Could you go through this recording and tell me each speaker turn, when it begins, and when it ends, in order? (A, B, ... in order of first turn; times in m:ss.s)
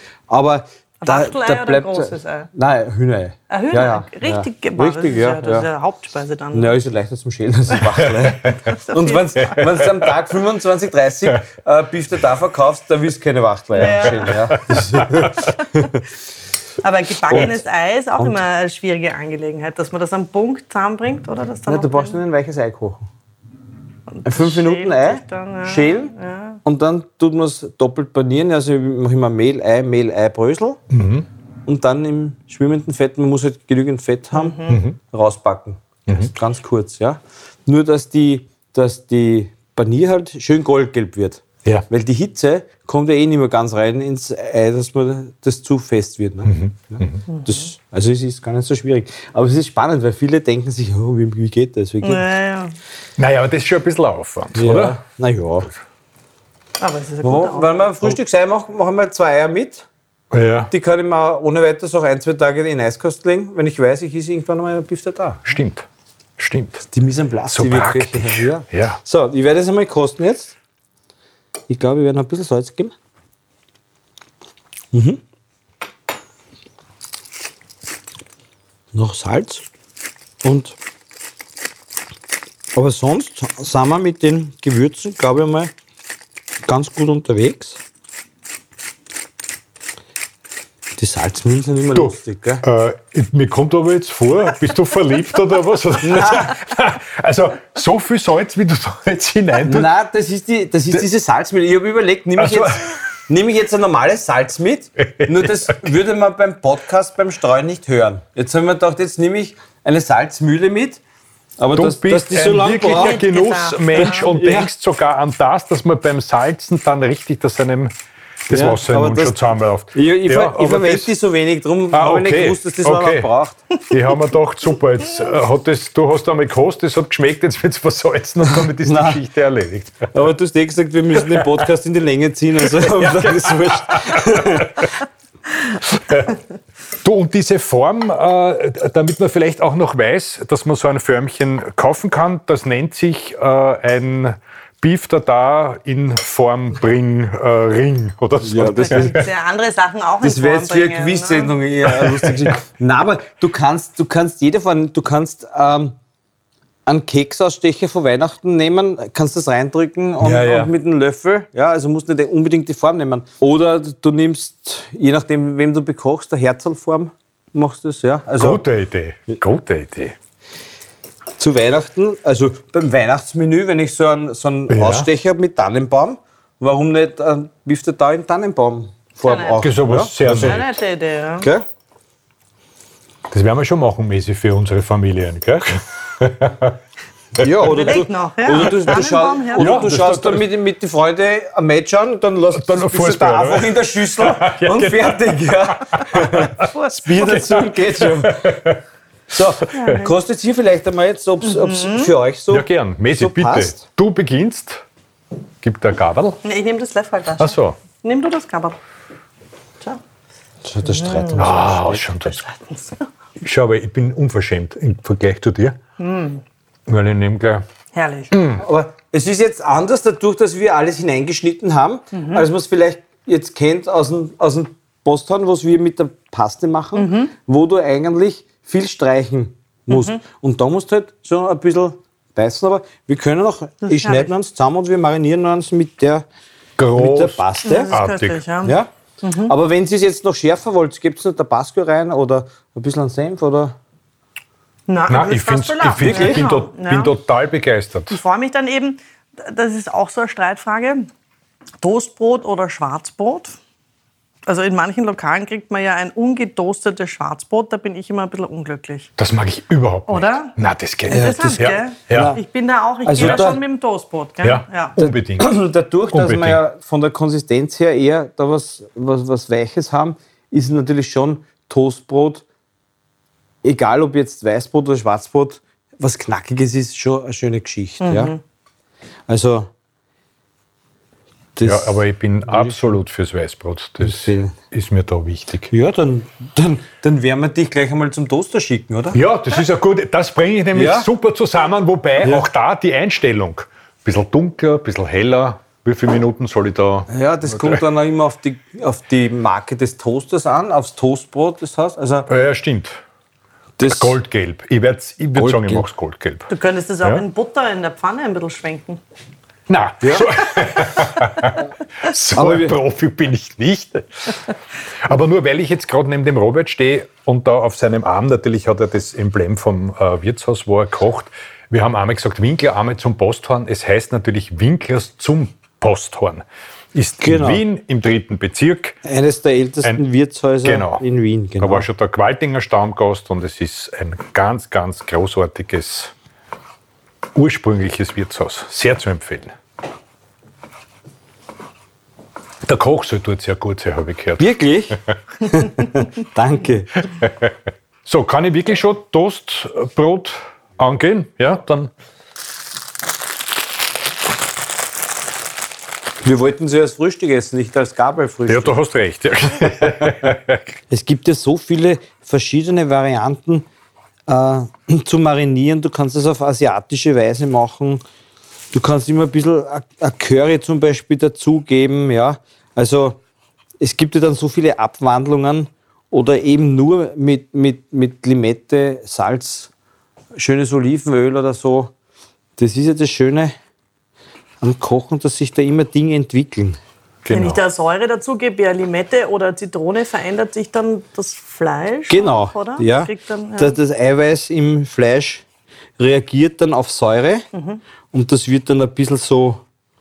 0:00.3-0:05.7 A
0:01.0-0:02.5 B
0:03.5-0:06.8 B
0:06.5-0:16.0 A
0:08.4-0:08.7 C
0:08.6-0:09.7 B
0:09.6-0:09.8 C
0:13.7-0:14.6 B
0:14.5-0:15.5 C
0:16.8-0:22.2 B
0:17.3-0:17.6 A
0:21.7-0:23.0 A
0:24.1-0:26.6 B
0:24.2-0:26.1 A
0:26.6-0:30.8 A
0:30.9-0:31.2 C
0:31.6-0:52.2 A
0:34.3-0:34.8 B
0:34.7-0:35.0 C
0:36.1-0:36.3 C
0:46.4-0:47.2 C
0:47.3-0:47.6 B
0:52.0-0:52.8 B
0:53.2-0:55.0 C
0:54.5-0:55.7 A
0:56.8-0:58.1 B
0:57.2-0:59.8 A
1:00.3-1:00.7 C
1:00.7-1:05.5 A
1:05.4-1:05.9 C
1:06.4-1:06.8 C
1:06.9-1:10.5 A
1:07.5-1:09.0 C
1:11.7-1:12.9 A
1:14.9-1:15.2 A
1:18.9-1:19.6 A
1:20.4-1:20.8 A
1:22.7-1:25.7 A
1:26.6-1:27.8 A
1:31.0-1:32.6 A
1:31.9-1:39.9 C
1:36.0-1:36.6 A
1:39.6-1:51.0 A
1:42.4-1:43.0 C
1:45.0-1:45.8 C
1:51.6-1:53.2 A
1:51.7-1:57.9 C
1:52.8-1:54.3 B
1:54.0-1:54.7 A
1:58.5-2:01.1 C
1:58.5-2:03.6 A
2:01.9-2:03.3 C
2:03.9-2:10.1 C
2:08.6-2:09.2 A
2:10.1-2:14.9 A
2:12.8-2:14.9 C
2:16.0-2:16.3 C
2:17.0-2:29.3 C
2:28.4-2:29.2 A
2:28.7-2:31.5 B
2:30.2-2:36.0 A
2:32.0-2:32.5 C
2:36.8-2:48.6 A
2:40.2-2:40.7 C
2:48.4-2:50.2 C
2:51.4-3:00.6 A
2:54.7-2:55.1 C
2:59.2-2:59.7 B
2:59.6-3:00.6 C
3:00.2-3:01.5 B
3:03.3-3:06.8 C
3:07.4-3:07.8 C
3:07.4-3:18.7 A
3:07.6-3:09.9 B
3:09.6-3:10.4 C
3:12.5-3:16.6 C
3:16.6-3:17.7 B
3:17.2-3:18.8 C
3:19.3-3:23.8 A
3:19.6-3:20.0 C
3:19.7-3:20.1 B
3:21.4-3:22.1 B
3:22.5-3:24.8 C
3:25.6-3:26.4 C
3:26.4-3:28.8 B
3:27.4-3:27.8 C
3:30.6-3:32.0 A
3:30.8-3:33.0 B
3:31.4-3:32.4 C
3:33.4-3:35.8 C
3:36.0-3:36.4 B
3:36.9-3:37.6 C
3:37.9-3:38.3 B
3:38.3-3:38.6 C
3:38.6-3:56.2 A
3:42.1-3:42.4 B
3:46.9-3:47.3 B
3:49.9-3:50.2 B
3:53.8-3:54.3 B
3:56.8-3:58.4 C
3:56.9-3:58.0 A
3:57.6-3:59.5 B
3:58.6-3:58.9 A
3:59.4-4:03.7 A
4:04.9-4:07.1 B
4:05.1-4:08.2 C
4:06.0-4:06.4 A
4:08.1-4:11.1 B
4:11.8-4:13.5 B
4:14.4-4:19.1 B
4:19.2-4:22.4 C
4:20.1-4:20.5 B
4:21.1-4:25.0 B
4:21.1-4:22.4 A
4:23.0-4:23.6 A
4:23.2-4:23.4 C
4:24.4-4:25.5 C
4:25.0-4:32.4 A
4:26.1-4:26.6 C
4:33.6-4:38.3 A
4:38.0-4:38.4 B
4:39.3-4:39.7 A
4:41.6-4:42.9 A
4:41.6-4:45.7 C
4:44.0-4:44.5 A
4:45.7-4:49.2 A
4:49.1-4:57.8 C
4:50.7-4:51.1 A
4:57.1-5:02.3 A
5:02.3-5:03.0 C
5:03.8-5:04.2 A
5:03.9-5:06.5 C
5:05.3-5:05.9 A
5:06.5-5:09.0 B
5:09.7-5:14.4 C
5:10.0-5:10.3 A
5:12.3-5:12.8 A
5:15.0-5:29.0 C
5:27.2-5:27.6 A
5:29.0-5:31.8 A
5:30.6-5:31.0 C
5:31.6-5:36.1 C
5:37.3-5:39.5 C
5:42.6-5:45.2 C
5:44.4-5:47.0 A
5:47.2-5:47.5 C
5:48.0-5:51.9 C
5:56.2-5:58.8 A
5:58.5-6:00.6 C
6:00.9-6:03.6 A
6:04.3-6:08.0 A
6:08.7-6:13.2 A
6:13.8-6:19.7 A
6:20.4-6:21.9 A
6:22.6-6:23.6 A
6:24.6-6:26.8 A
6:27.2-6:27.6 C
6:27.3-6:33.8 B
6:32.1-6:35.4 A
6:36.0-6:37.4 A
6:37.5-6:37.8 B
6:38.1-6:39.6 A